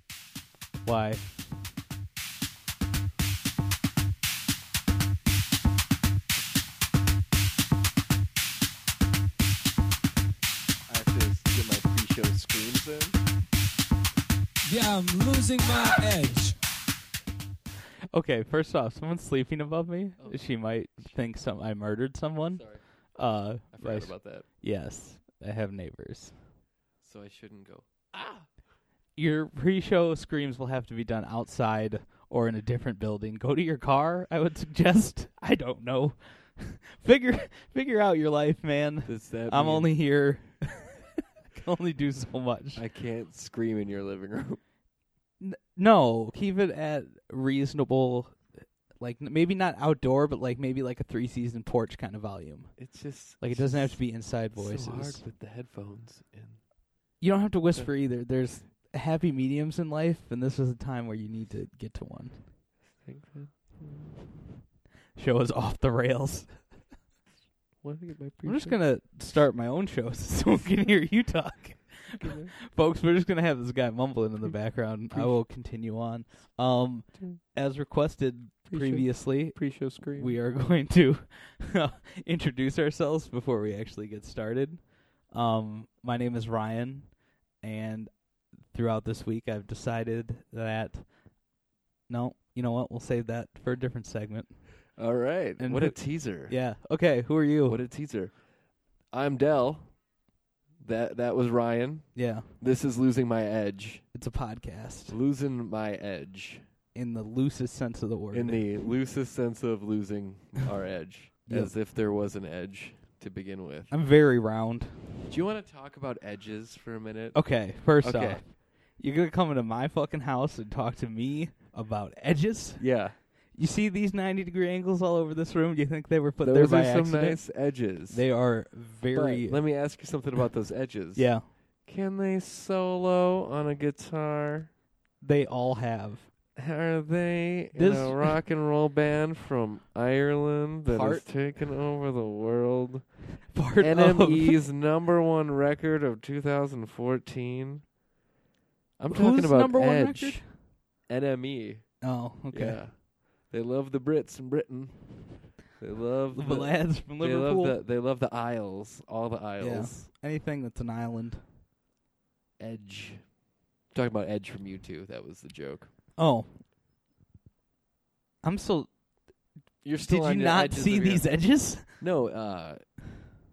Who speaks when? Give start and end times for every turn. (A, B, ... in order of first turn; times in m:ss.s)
0:00.8-0:01.5 A
0:10.9-0:13.2 B
0:14.6-0:16.6 C
0:18.1-0:26.4 A
0:20.2-0:21.2 B
0:22.5-0:24.5 B
0:27.0-0:28.5 B
0:29.2-0:42.8 A
0:39.1-0:40.0 B
0:42.8-0:44.6 B
0:45.4-0:48.4 A
0:49.0-0:55.2 A
0:52.8-0:56.6 B
0:57.2-1:02.5 A
1:03.0-1:04.2 B
1:05.2-1:06.7 A
1:07.8-1:08.8 B
1:08.4-1:31.4 A
1:12.2-1:12.5 B
1:15.1-1:15.4 B
1:18.7-1:20.4 B
1:32.1-1:35.0 A
1:35.0-1:36.6 B
1:35.6-1:37.8 A
1:37.7-1:38.4 B
1:39.1-1:40.0 B
1:40.8-1:44.1 B
1:42.2-1:42.5 A
1:44.1-1:45.2 A
1:45.1-1:46.6 B
1:46.9-1:48.8 A
1:48.3-1:53.9 B
1:51.5-1:51.8 A
1:53.9-1:55.0 A
1:55.3-1:58.5 B
1:57.3-2:09.9 A
2:02.8-2:03.2 B
2:06.4-2:08.3 B
2:09.1-2:14.7 B
2:11.2-2:11.5 A
2:15.2-2:16.3 A
2:16.6-2:23.3 B
2:17.7-2:18.4 A
2:20.9-2:21.3 A
2:23.5-2:24.6 A
2:23.8-2:27.8 B
2:29.0-2:40.1 B
2:29.1-2:30.5 A
2:32.0-2:32.8 A
2:36.3-2:37.8 A
2:39.6-2:41.4 A
2:42.6-2:43.3 B
2:43.9-2:45.9 B
2:46.2-2:46.6 A
2:48.4-2:48.9 A
2:49.8-2:53.1 B
2:50.0-2:52.0 A